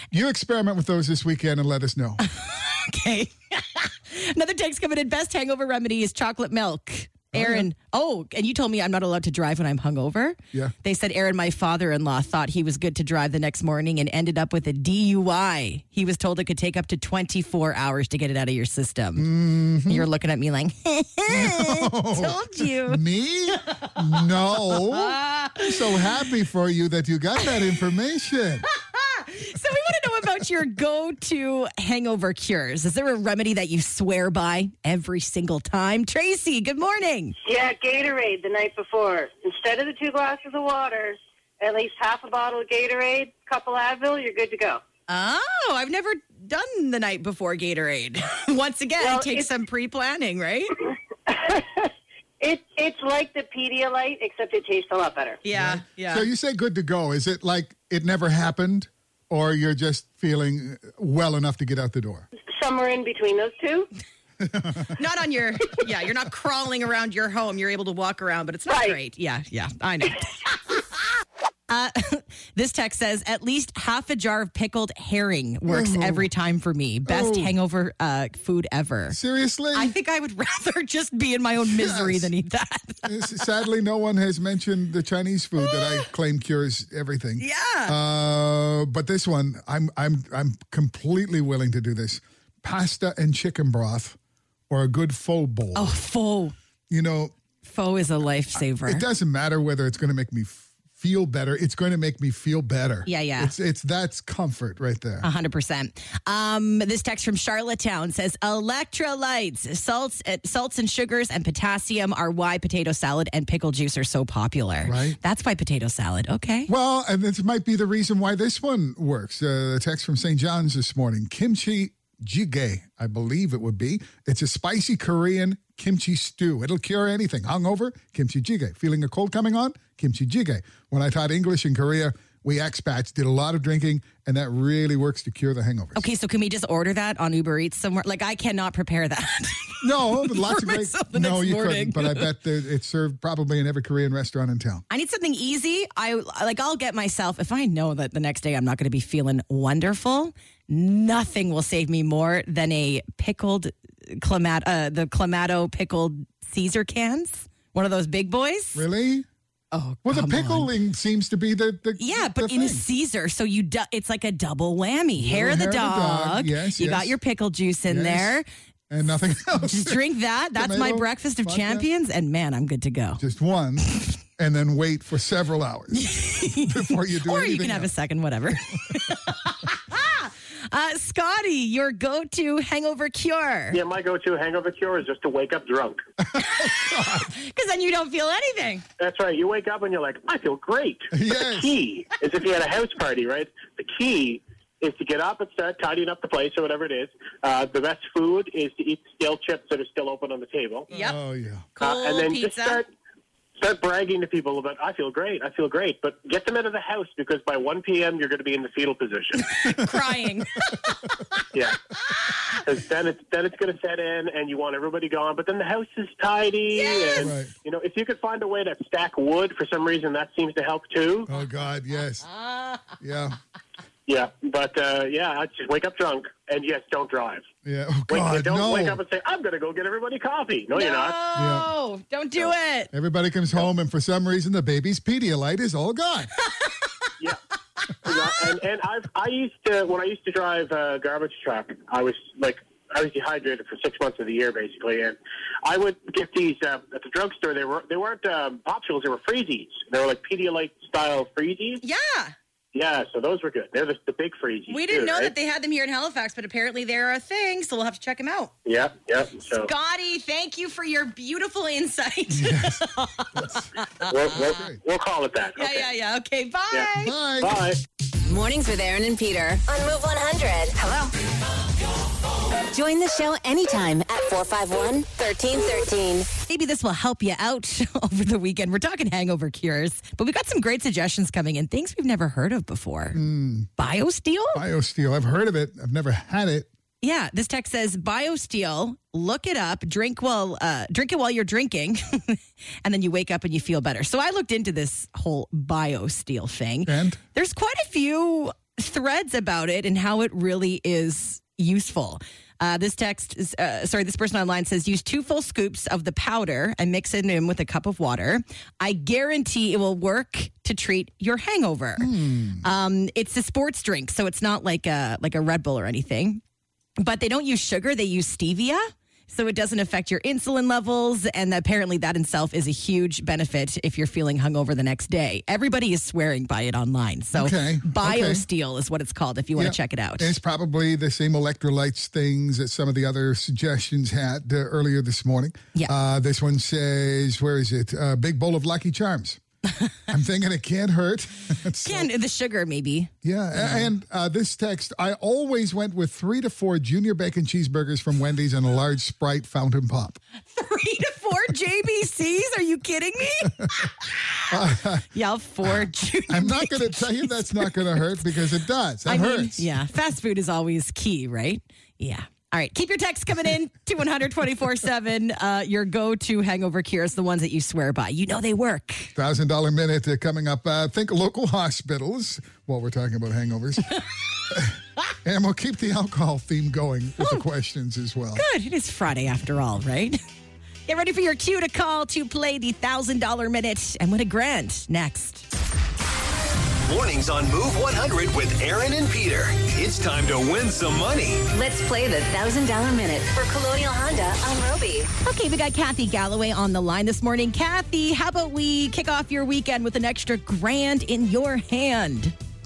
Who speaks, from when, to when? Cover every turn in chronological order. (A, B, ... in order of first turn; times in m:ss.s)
0:00.1-0:02.2 A
0:02.2-0:19.3 B
0:07.3-0:07.7 A
0:19.2-0:20.1 A
0:19.9-0:23.0 B
0:21.3-0:28.7 A
0:23.6-0:26.0 B
0:28.7-0:37.4 B
0:37.4-0:44.8 C
0:45.1-0:50.7 B
0:49.0-0:49.5 C
0:51.3-0:51.9 C
0:52.4-0:55.4 C
0:55.4-0:56.3 B
0:55.5-1:02.3 A
1:02.4-1:03.9 C
1:04.4-1:05.0 A
1:04.9-1:10.5 B
1:11.7-1:19.2 B
1:15.7-1:16.3 A
1:17.1-1:17.6 A
1:19.1-1:20.0 A
1:19.7-1:23.4 B
1:21.6-1:22.3 A
1:23.0-1:34.2 A
1:25.6-1:26.1 B
1:27.4-1:28.0 B
1:34.7-1:36.0 A
1:35.7-1:36.6 B
1:36.9-1:37.4 A
1:37.6-1:39.0 B
1:38.6-1:45.3 A
1:43.1-1:43.5 B
1:45.2-1:56.7 B
1:54.8-1:55.2 A
1:56.7-2:16.0 A
2:16.0-2:22.3 B
2:19.8-2:24.8 A
2:24.9-2:38.8 B
2:38.8-2:39.3 A
2:39.7-2:40.7 B
2:40.0-2:42.8 A
2:42.0-2:48.5 B
2:45.2-2:47.2 A
2:47.9-2:51.9 A
2:49.7-2:53.2 B
2:53.2-2:57.9 A
2:55.9-3:03.8 B
3:03.7-3:06.0 D
3:06.2-3:07.3 A
3:06.4-3:08.8 B
3:09.0-3:20.9 D
3:11.1-3:11.8 A
3:20.9-3:21.2 B
3:20.9-3:21.8 A
3:21.8-3:22.8 B
3:21.8-3:22.9 D
3:23.6-3:29.5 D
3:29.4-3:31.4 B
3:32.1-3:32.4 B
3:32.6-3:41.3 D
3:36.7-3:37.3 B
3:37.2-3:37.5 A
3:41.3-3:42.3 A
3:42.3-3:43.0 B
3:43.0-3:43.4 A
3:44.1-3:47.5 D
3:47.6-3:49.0 A
3:48.1-3:51.2 D
3:50.7-3:52.9 B
3:51.4-3:51.7 A
3:52.9-3:56.3 A
3:56.5-3:56.9 B
3:58.0-4:11.8 D
4:11.8-4:12.3 B
4:12.7-4:15.3 D
4:14.7-4:18.5 B
4:18.7-4:19.7 D
4:19.5-4:24.5 B
4:22.3-4:22.8 A
4:23.4-4:23.7 A
4:24.1-4:25.9 D
4:24.3-4:24.8 A
4:25.6-4:27.2 B
4:27.0-4:27.6 A
4:27.4-4:27.8 D
4:28.3-4:31.1 E
4:32.7-4:36.3 E
4:36.4-4:43.2 B
4:43.1-4:43.7 A
4:43.8-4:44.6 B
4:44.5-4:46.7 A
4:47.0-5:16.4 B
4:56.9-4:57.2 A
5:12.0-5:12.7 A
5:17.0-5:30.4 B
5:27.3-5:28.4 A
5:29.6-5:39.4 A
5:40.1-5:42.1 A
5:41.8-5:43.9 B
5:43.2-5:50.2 A
5:50.5-5:58.2 B
5:53.4-5:53.8 A
5:54.5-5:55.1 A
5:55.6-5:59.7 A
5:59.1-6:09.1 B
6:09.2-6:13.9 A
6:14.5-6:18.4 A
6:18.4-6:20.2 B
6:20.9-6:25.5 B
6:26.9-6:31.4 F
6:31.5-6:35.1 E
6:35.2-6:42.4 B